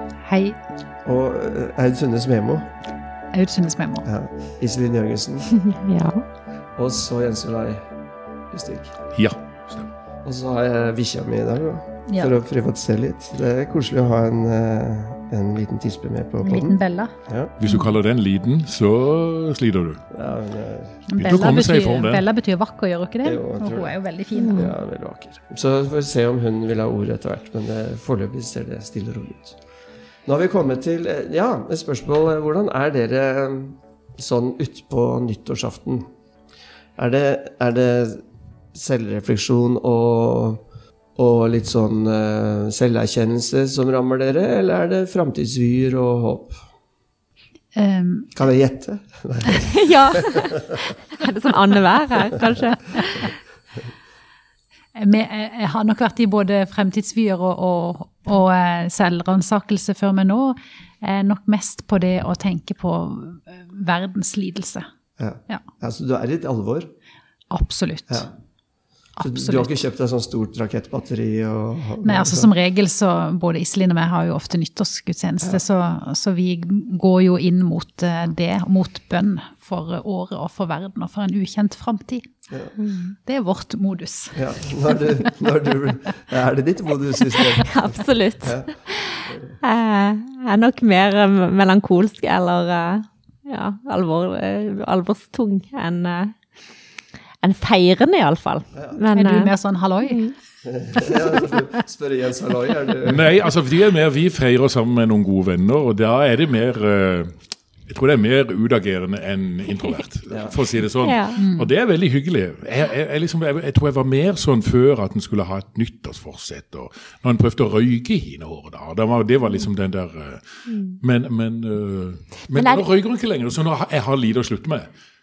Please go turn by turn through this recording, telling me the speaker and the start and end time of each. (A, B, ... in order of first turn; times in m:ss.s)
0:00.2-0:00.6 A
0:01.0-0:02.7 B
0:03.3-0:04.1 A
0:04.0-0:05.5 B
0:05.6-0:06.2 C
0:06.8-0:07.8 B
0:08.5-0:09.0 B
0:09.1-0:09.9 D
0:10.2-0:17.5 B
0:16.4-0:17.2 A
0:17.6-0:20.0 D
0:20.1-0:21.0 B
0:21.1-0:24.7 A
0:21.2-0:22.2 D
0:23.2-0:23.9 B
0:24.4-0:24.7 C
0:24.5-0:29.6 B
0:30.3-0:36.1 B
0:37.0-0:38.2 B
0:38.7-0:40.6 B
0:41.2-0:46.6 B
0:47.8-0:48.3 A
0:48.4-0:50.8 B
0:49.6-0:53.3 C
0:53.0-0:53.2 A
0:55.0-1:04.9 A
1:05.2-1:06.9 B
1:07.5-1:08.3 A
1:09.2-1:09.8 A
1:09.2-1:12.5 B
1:12.0-1:22.3 A
1:22.5-1:22.8 B
1:22.8-1:23.2 C
1:23.2-1:25.1 A
1:24.3-1:29.6 B
1:27.5-1:36.4 C
1:37.4-1:40.4 C
1:38.7-1:39.0 B
1:39.1-1:40.3 A
1:40.6-1:43.4 B
1:43.1-2:04.9 D
1:50.3-1:50.6 B
1:51.0-1:51.4 C
1:51.4-1:51.7 A
2:00.7-2:01.0 C
2:02.5-2:02.8 C